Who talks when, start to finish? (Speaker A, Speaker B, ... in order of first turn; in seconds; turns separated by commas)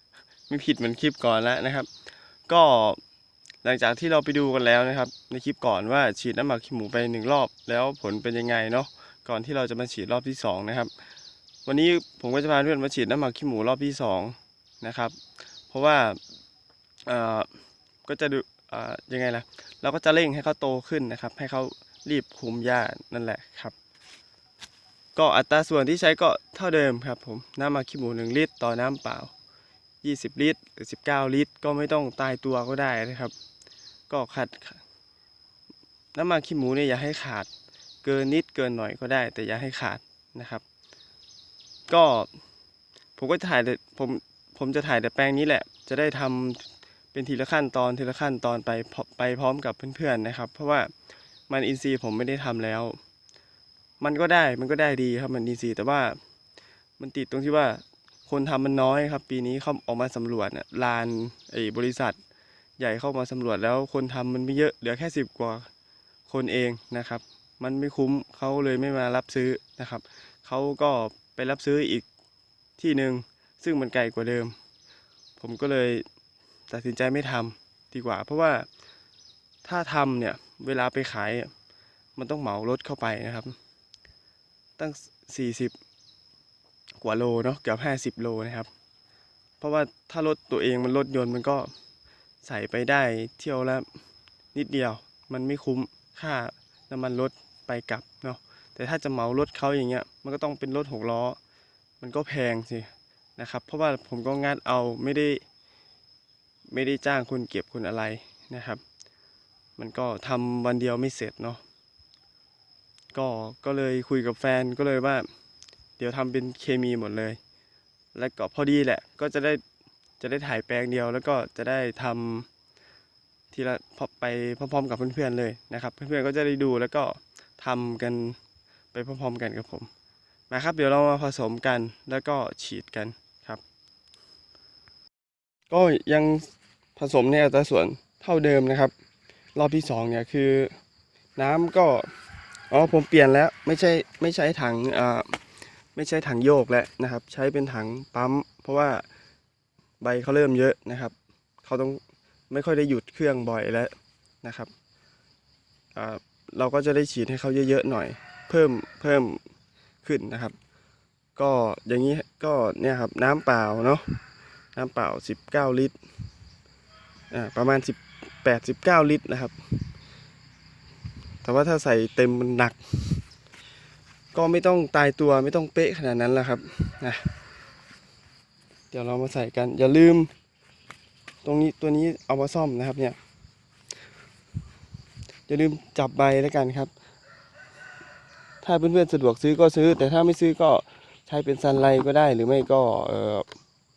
Speaker A: 0.5-1.9, Speaker A: 2.5-3.0, Speaker A: 3.6-10.9, Speaker A: 11.7-15.2, Speaker A: 15.7-16.2, Speaker A: 17.1-17.5, Speaker A: 18.0-23.7, Speaker A: 25.1-29.3, Speaker A: 30.0-33.3, Speaker A: 34.1-34.8, Speaker A: 36.1-37.5, Speaker A: 38.0-40.6, Speaker A: 41.9-42.3, Speaker A: 43.2-50.9, Speaker A: 51.5-53.0, Speaker A: 54.0-56.2, Speaker A: 57.0-62.2, Speaker A: 62.8-65.7, Speaker A: 66.3-72.0, Speaker A: 72.8-74.5, Speaker A: 75.4-76.0, Speaker A: 76.7-78.7, Speaker A: 79.6-81.5, Speaker A: 82.2-83.5, Speaker A: 84.8-85.8, Speaker A: 87.0-88.7, Speaker A: 89.6-91.7, Speaker A: 92.4-93.9, Speaker A: 94.5-101.4, Speaker A: 102.0-105.4, Speaker A: 106.7-108.8, Speaker A: 109.8-111.6, Speaker A: 113.1-115.3, Speaker A: 116.0-117.4, Speaker A: 118.1-119.6, Speaker A: 120.2-122.5, Speaker A: 123.5-128.4, Speaker A: 128.9-129.9, Speaker A: 130.5-133.6, Speaker A: 135.7-138.9, Speaker A: 139.5-140.7, Speaker A: 141.3-142.1, Speaker A: 142.7-145.4, Speaker A: 145.9-149.0, Speaker A: 150.0-154.7, Speaker A: 155.9-159.4, Speaker A: 160.0-160.6, Speaker A: 161.3-164.2, Speaker A: 164.7-166.0, Speaker A: 167.3-169.8, Speaker A: 171.4-173.2, Speaker A: 174.3-177.3, Speaker A: 178.9-180.3, Speaker A: 181.4-183.2, Speaker A: 185.5-186.9, Speaker A: 188.6-193.5